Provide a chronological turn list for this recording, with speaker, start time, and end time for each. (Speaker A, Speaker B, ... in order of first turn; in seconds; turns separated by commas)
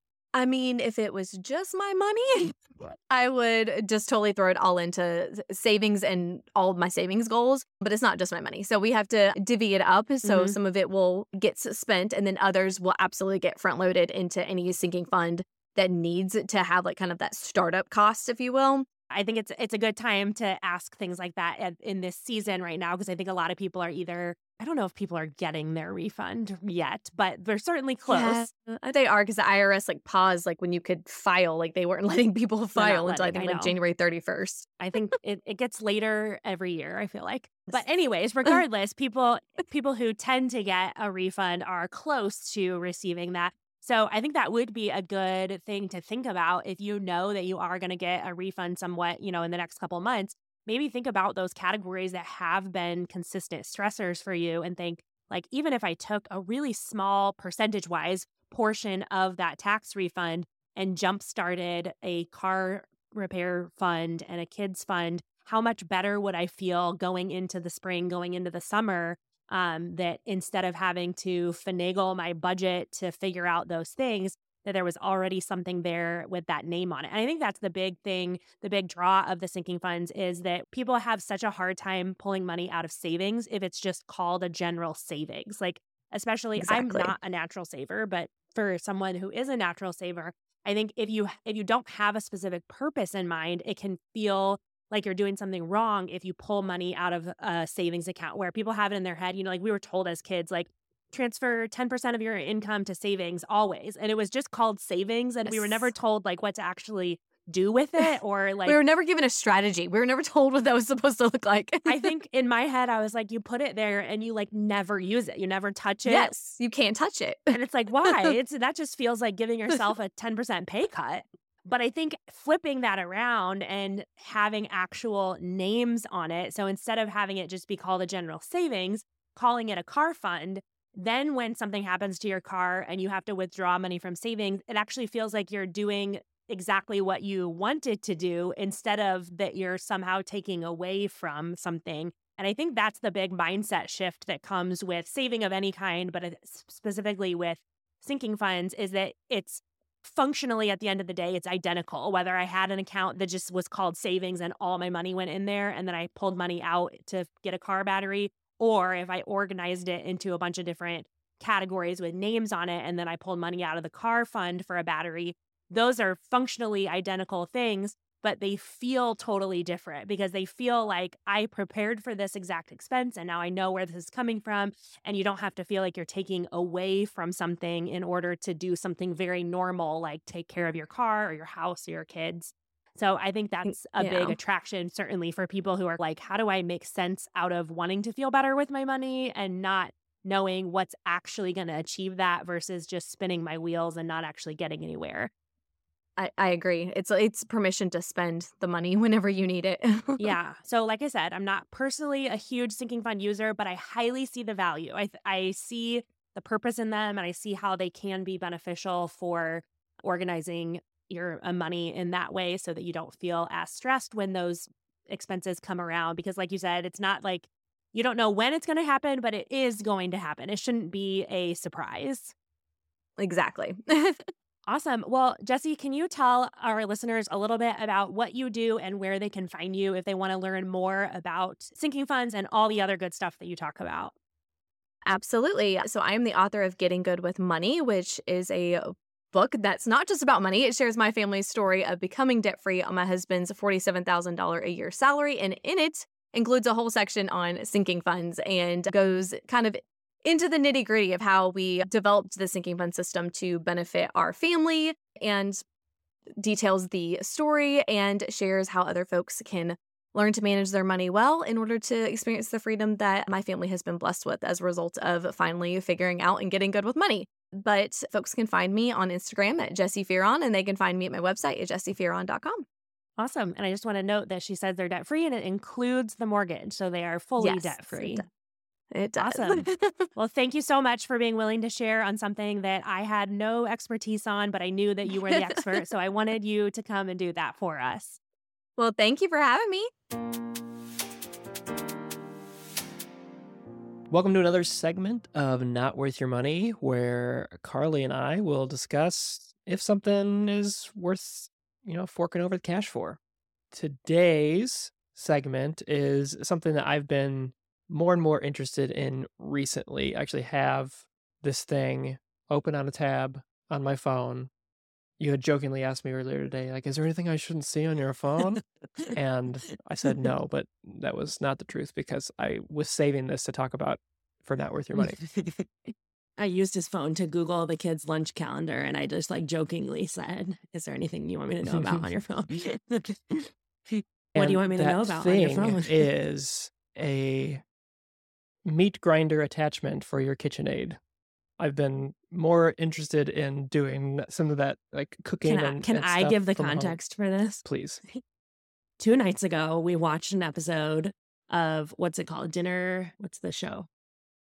Speaker A: 0.3-18.9, Speaker B: 10.2-10.6, Speaker B: 19.1-28.4, Speaker A: 28.1-34.8, Speaker B: 32.7-33.7, Speaker B: 34.8-108.8, Speaker A: 86.6-87.1, Speaker A: 105.5-105.9, Speaker A: 108.7-112.0, Speaker B: 111.8-116.3, Speaker A: 116.0-118.3, Speaker B: 117.5-195.3, Speaker A: 183.7-184.4, Speaker A: 196.2-200.4, Speaker B: 200.2-222.3, Speaker A: 223.2-224.2, Speaker B: 224.7-234.1, Speaker A: 235.1-255.6, Speaker A: 256.4-272.6, Speaker B: 273.2-278.2, Speaker A: 277.4-278.3, Speaker A: 278.9-280.1, Speaker B: 279.2-288.2, Speaker A: 285.2-285.6, Speaker A: 288.8-289.9, Speaker C: 294.1-303.2, Speaker C: 303.7-314.5, Speaker C: 315.2-325.2, Speaker B: 325.0-336.1, Speaker C: 331.7-332.0, Speaker C: 334.3-337.6, Speaker C: 338.6-341.0, Speaker C: 341.6-347.0, Speaker B: 345.4-347.6, Speaker C: 347.6-348.0, Speaker B: 349.0-353.9